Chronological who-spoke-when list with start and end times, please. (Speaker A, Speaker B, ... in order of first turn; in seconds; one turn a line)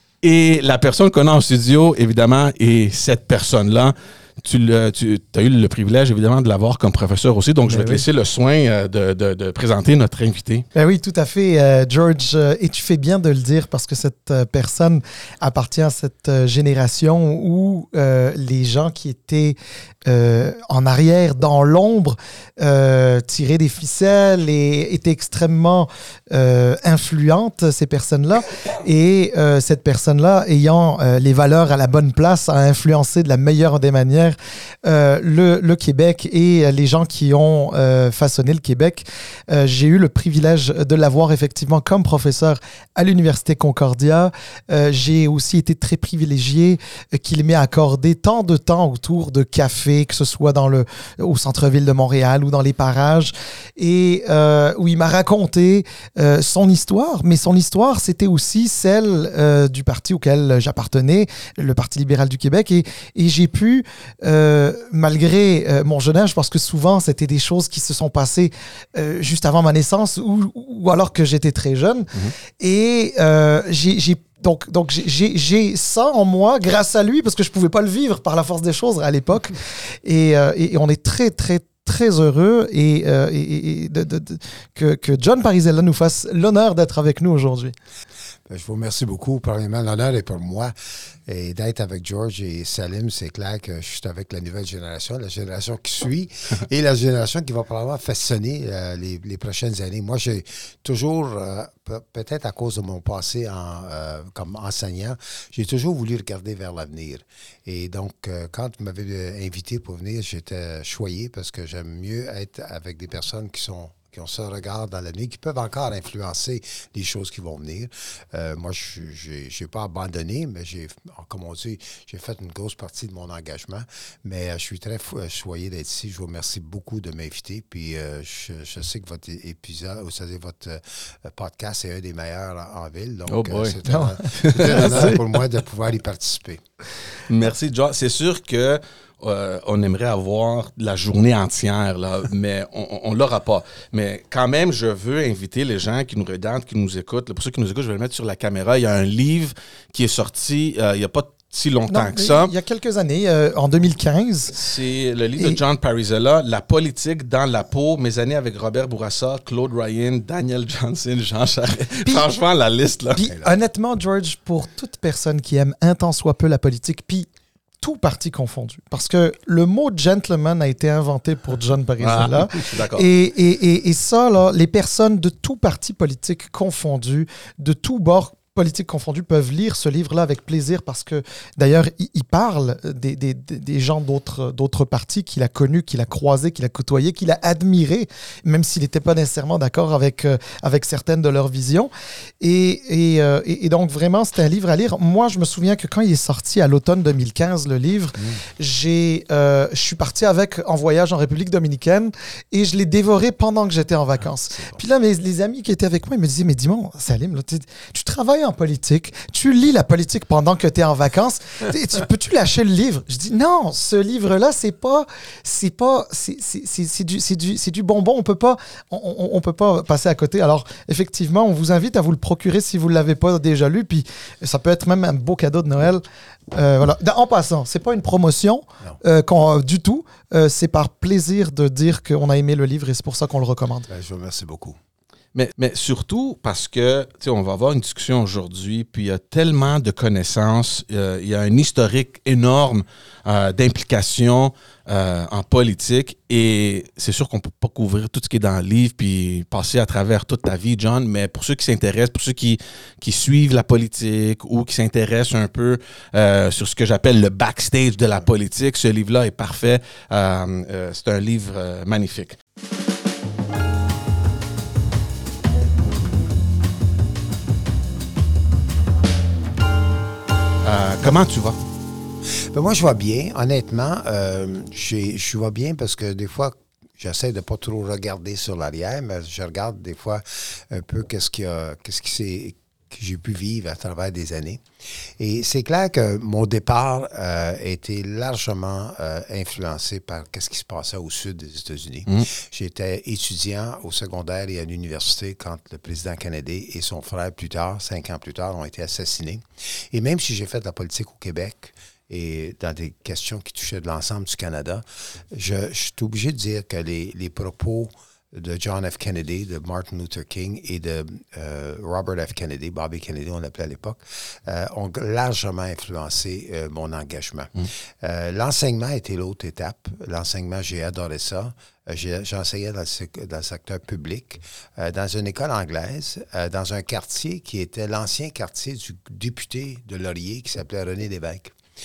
Speaker A: 0.2-10.7
Speaker B: 7.6-8.1
Speaker B: 10.7-87.7
Speaker C: 88.5-136.6
Speaker A: 133.3-135.2
Speaker B: 133.9-135.1
Speaker A: 137.3-152.5
Speaker B: 151.9-154.6
Speaker A: 154.5-163.2
Speaker B: 163.2-167.3
Speaker C: 163.2-163.5
Speaker B: 167.8-233.9
Speaker A: 172.0-173.1
Speaker C: 204.5-204.8
Speaker C: 233.9-234.8
Speaker A: 235.3-262.4
Speaker A: 270.6-271.6
Speaker C: 272.3-331.6